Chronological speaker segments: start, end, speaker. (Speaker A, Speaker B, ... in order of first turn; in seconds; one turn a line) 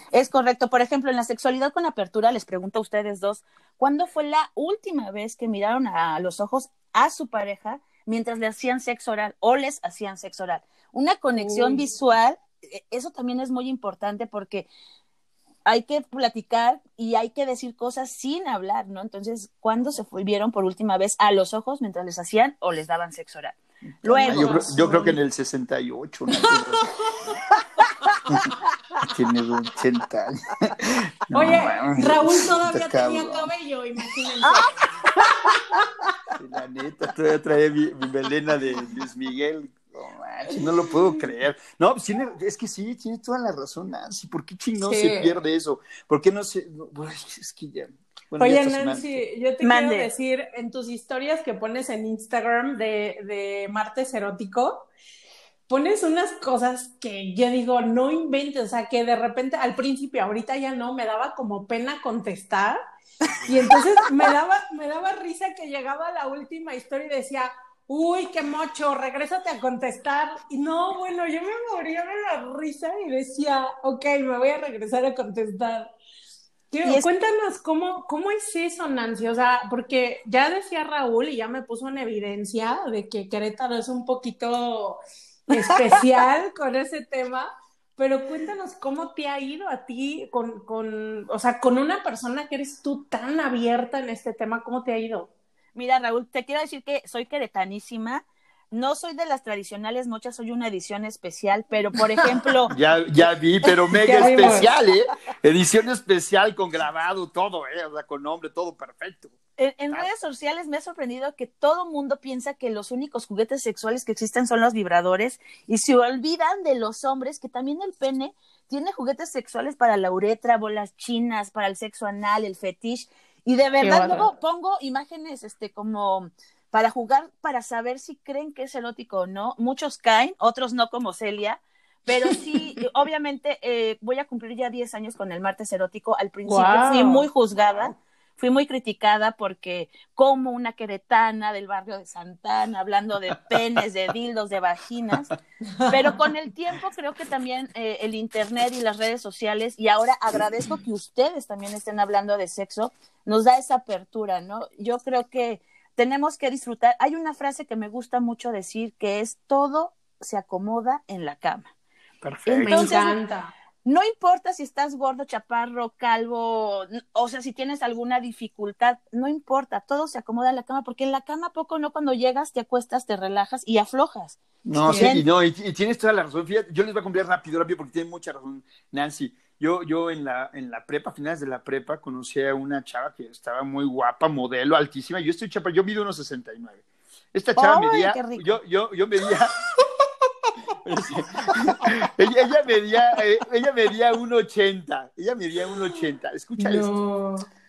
Speaker A: 0.1-14.7
Speaker B: 11.3-11.8
Speaker A: 15.7-24.7
Speaker C: 24.0-26.9
Speaker B: 24.2-25.2
Speaker B: 26.4-27.4
Speaker A: 27.9-28.2
Speaker C: 29.1-33.5
Speaker B: 31.3-35.9
Speaker A: 34.4-34.7
Speaker A: 35.6-35.9
Speaker C: 36.3-49.2
Speaker B: 44.8-45.3
Speaker B: 48.4-54.9
Speaker A: 49.6-50.1
Speaker B: 55.7-62.8
Speaker B: 63.4-75.9
Speaker B: 76.7-95.3
Speaker A: 85.6-86.0
Speaker A: 95.7-102.7
Speaker B: 102.1-102.7
Speaker C: 102.7-109.3
Speaker B: 104.0-104.7
Speaker A: 104.2-104.5
Speaker A: 109.6-145.3
Speaker B: 123.8-124.3
Speaker B: 132.1-132.5
Speaker B: 136.4-137.3
Speaker B: 145.8-146.2
Speaker A: 145.9-161.7
Speaker C: 162.2-162.9
Speaker A: 162.4-163.2
Speaker B: 162.6-163.5
Speaker A: 163.8-175.2
Speaker C: 174.6-186.8
Speaker B: 174.8-175.2
Speaker C: 187.3-189.5
Speaker A: 187.6-188.6
Speaker C: 190.8-197.0
Speaker B: 196.6-197.4